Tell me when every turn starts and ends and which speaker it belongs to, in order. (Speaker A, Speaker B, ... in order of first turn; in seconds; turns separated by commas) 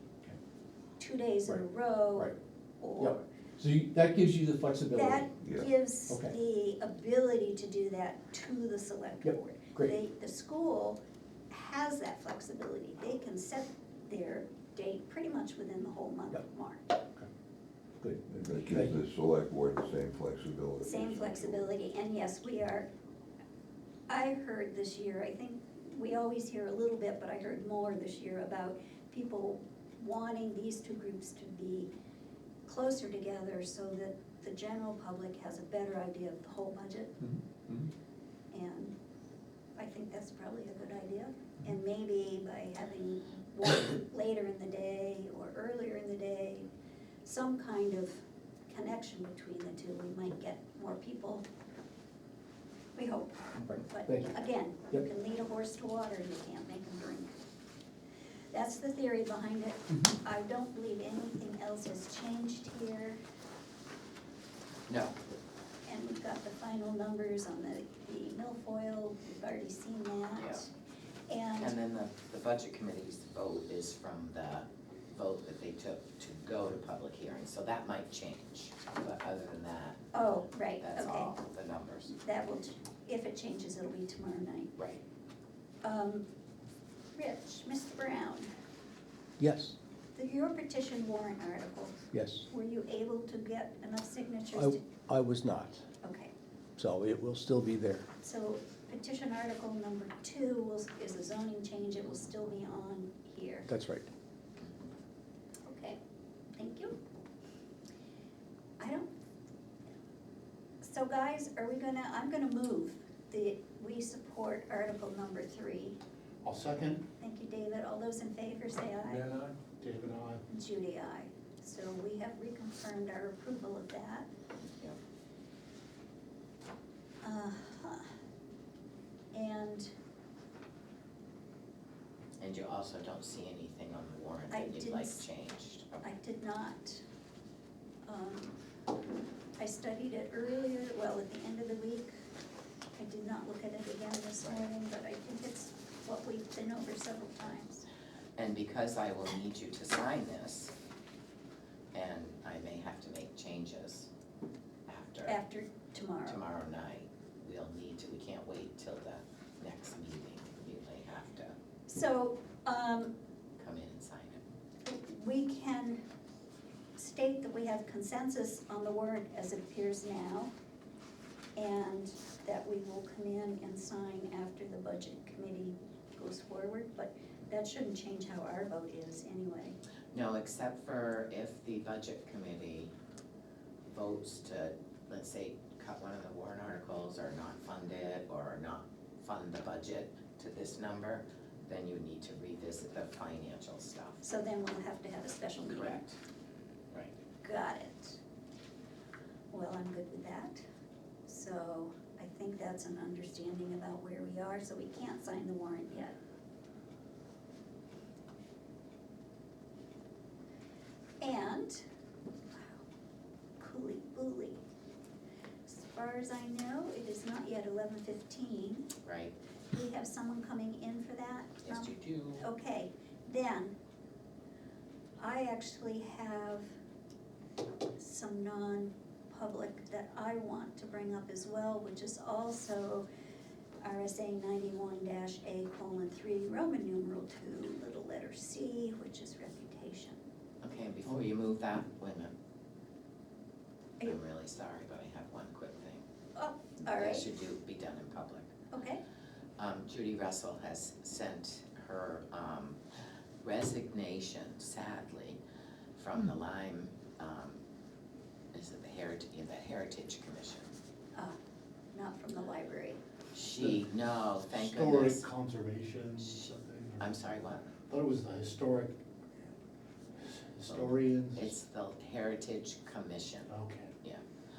Speaker A: 1.0-3.2, Speaker B: 3.0-5.3, Speaker A: 4.9-11.0, Speaker B: 9.2-9.9, Speaker A: 11.5-16.8, Speaker B: 18.0-19.0, Speaker C: 18.3-21.7, Speaker A: 20.8-22.9, Speaker A: 24.1-31.9, Speaker A: 32.7-37.2, Speaker B: 37.2-37.9, Speaker A: 38.5-38.9, Speaker A: 39.8-46.7, Speaker A: 47.2-51.4, Speaker A: 53.0-57.3, Speaker B: 53.6-54.3, Speaker A: 58.5-63.2, Speaker D: 64.9-65.2, Speaker A: 65.9-70.7, Speaker D: 70.4-70.7, Speaker A: 71.3-71.7, Speaker D: 71.6-80.1, Speaker A: 80.1-81.3, Speaker D: 80.8-82.2, Speaker A: 82.2-84.7, Speaker D: 84.8-85.0, Speaker A: 85.8-86.2, Speaker A: 87.2-88.5, Speaker B: 89.4-89.8, Speaker A: 90.2-92.0, Speaker B: 92.1-92.5, Speaker A: 92.5-94.8, Speaker B: 94.5-95.8, Speaker A: 96.0-96.3, Speaker B: 96.8-98.0, Speaker A: 98.2-103.7, Speaker B: 103.7-104.1, Speaker A: 105.7-106.0, Speaker A: 106.6-107.0, Speaker A: 108.8-109.1, Speaker A: 110.8-116.0, Speaker E: 116.4-117.1, Speaker A: 117.2-119.2, Speaker E: 119.1-120.4, Speaker A: 120.5-124.3, Speaker D: 124.6-125.0, Speaker A: 127.2-128.1, Speaker A: 129.3-129.9, Speaker D: 132.4-136.1, Speaker A: 134.5-135.2, Speaker A: 136.0-137.0, Speaker A: 138.1-138.6, Speaker A: 139.6-142.1, Speaker A: 143.0-147.8, Speaker D: 148.4-150.7, Speaker D: 151.9-154.1, Speaker D: 154.9-155.4, Speaker A: 155.3-156.4, Speaker D: 156.2-161.6, Speaker A: 161.9-163.1, Speaker D: 163.6-164.4, Speaker A: 164.8-166.0, Speaker A: 167.0-170.5, Speaker A: 171.6-179.8, Speaker D: 180.1-182.9, Speaker D: 183.9-194.2, Speaker A: 194.2-196.0, Speaker D: 195.6-196.2, Speaker A: 197.4-198.2, Speaker A: 199.5-200.6, Speaker A: 201.3-206.2, Speaker A: 211.2-211.8, Speaker A: 213.6-214.6, Speaker A: 215.7-218.9, Speaker D: 219.0-219.3, Speaker A: 219.7-223.7, Speaker D: 221.6-222.4, Speaker A: 225.2-226.7, Speaker A: 228.0-233.1, Speaker A: 233.8-240.2, Speaker D: 240.6-242.3, Speaker D: 244.0-246.1, Speaker A: 246.4-247.2, Speaker D: 246.8-248.5, Speaker A: 248.7-249.0, Speaker D: 249.6-252.8, Speaker D: 253.4-255.4, Speaker D: 256.0-257.6, Speaker D: 258.5-260.7, Speaker A: 261.9-263.0, Speaker D: 263.3-265.3, Speaker E: 264.5-267.2, Speaker D: 266.2-267.7, Speaker E: 267.8-269.0, Speaker E: 270.2-271.6, Speaker D: 270.7-273.5, Speaker E: 273.5-273.9